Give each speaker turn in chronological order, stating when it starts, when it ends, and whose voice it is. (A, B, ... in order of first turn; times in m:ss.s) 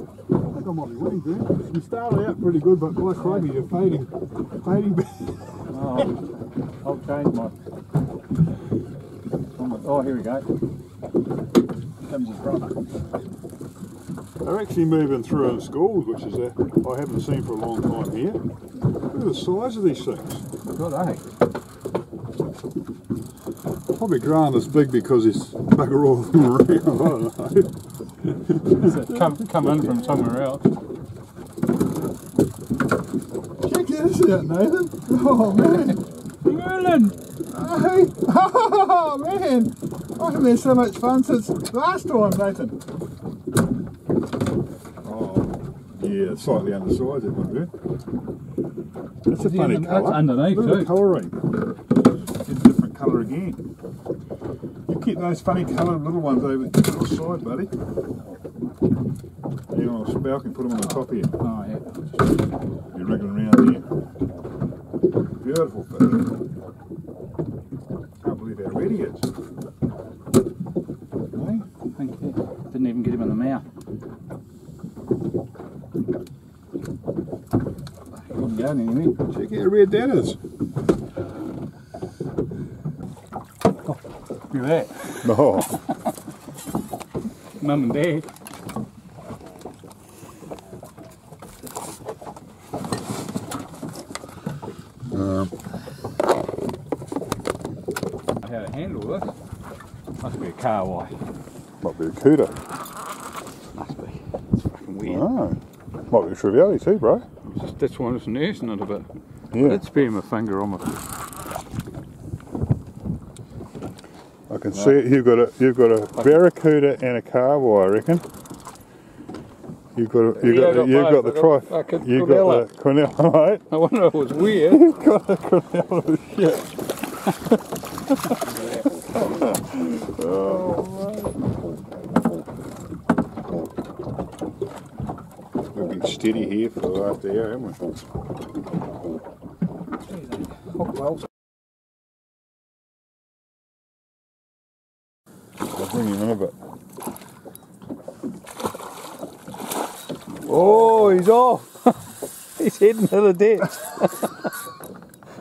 0:00.3-0:05.6 A
0:03.1-0:03.5 B
0:05.7-0:06.2 B
0:06.8-0:07.5 B
0:09.6-0:10.5 B
0:12.0-0:12.8 B
0:14.4-0:18.4 A
0:19.1-0:20.4 A
0:20.7-0:21.2 B
0:23.9-0:27.7 A
0:28.5-0:30.1 A
0:28.7-0:30.6 B
0:33.6-0:36.0 A
0:36.4-0:37.2 B
0:37.5-0:42.8 A
0:45.0-0:47.7 A
0:49.2-0:51.4 A
0:49.3-0:51.0 B
0:52.4-0:53.6 A
0:54.9-0:57.7 A
0:59.7-1:01.3 A
1:00.8-1:02.3 B
1:02.9-1:03.8 A
1:05.4-1:06.3 A
1:08.2-1:09.3 A
1:11.3-1:11.6 A
1:11.9-1:13.6 B
1:18.2-1:19.2 B
1:19.3-1:20.4 A
1:24.5-1:25.3 B
1:25.2-1:25.7 A
1:27.6-1:28.3 B
1:35.1-1:35.5 A
1:38.4-1:39.3 B
1:40.2-1:41.1 B
1:41.8-1:42.5 A
1:43.8-1:45.3 B
1:45.0-1:45.6 A
1:46.1-1:47.2 A
1:47.5-1:49.0 B
1:49.5-1:49.8 A
1:49.6-1:51.0 B
1:54.5-1:58.2 A
1:59.9-2:03.6 A
2:00.3-2:02.7 B
2:03.7-2:04.9 B
2:04.4-2:07.4 A
2:08.6-2:08.8 B
2:09.2-2:11.3 A
2:15.7-2:17.9 A
2:20.1-2:21.2 B
2:25.7-2:26.5 A
2:30.4-2:31.9 B
2:32.6-2:34.4 B